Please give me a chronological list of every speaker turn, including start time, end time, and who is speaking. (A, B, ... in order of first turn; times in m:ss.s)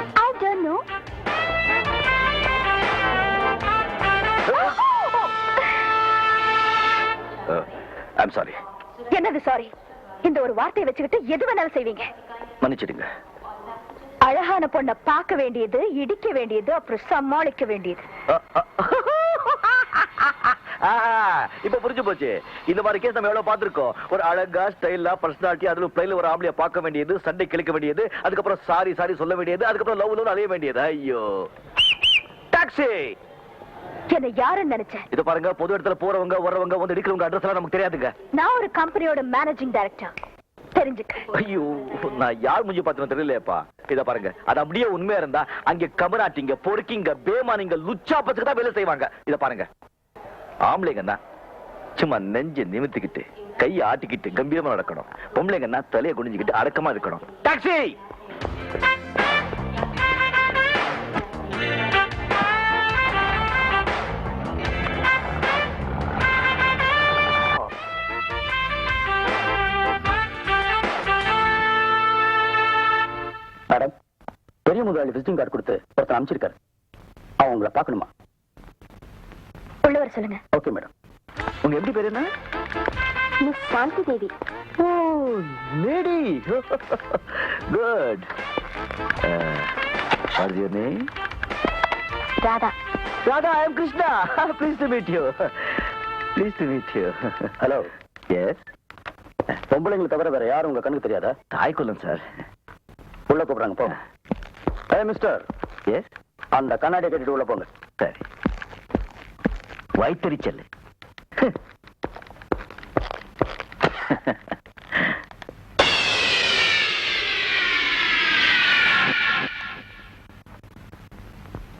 0:00.2-0:00.8 A
0:07.5-0:08.6 B
0:09.1-0:09.7 A
0:10.2-0:12.1 A
0:12.6-0:13.0 B
0:14.2-0:18.0 A
0:18.3-0:31.5 B
0:32.5-0:33.1 B
0:34.1-0:35.0 A
0:35.1-0:38.1 B
0:38.3-0:40.1 A
0:40.7-0:41.3 A
0:41.3-0:49.7 B
0:50.7-0:51.2 B
0:52.0-0:58.0 B
1:14.6-1:16.6 C
1:17.4-1:18.1 C
1:19.8-1:20.4 A
1:20.5-1:20.9 C
1:21.6-1:22.3 B
1:23.5-1:24.3 A
1:24.8-1:28.3 B
1:29.2-1:29.7 B
1:30.3-1:31.1 B
1:32.4-1:32.7 A
1:33.2-1:35.8 B
1:36.4-1:37.5 B
1:37.6-1:37.9 C
1:39.7-1:41.4 C
1:41.5-1:42.2 B
1:43.3-1:43.9 C
1:44.9-1:45.4 C
1:46.5-1:47.7 C
1:50.0-1:50.6 B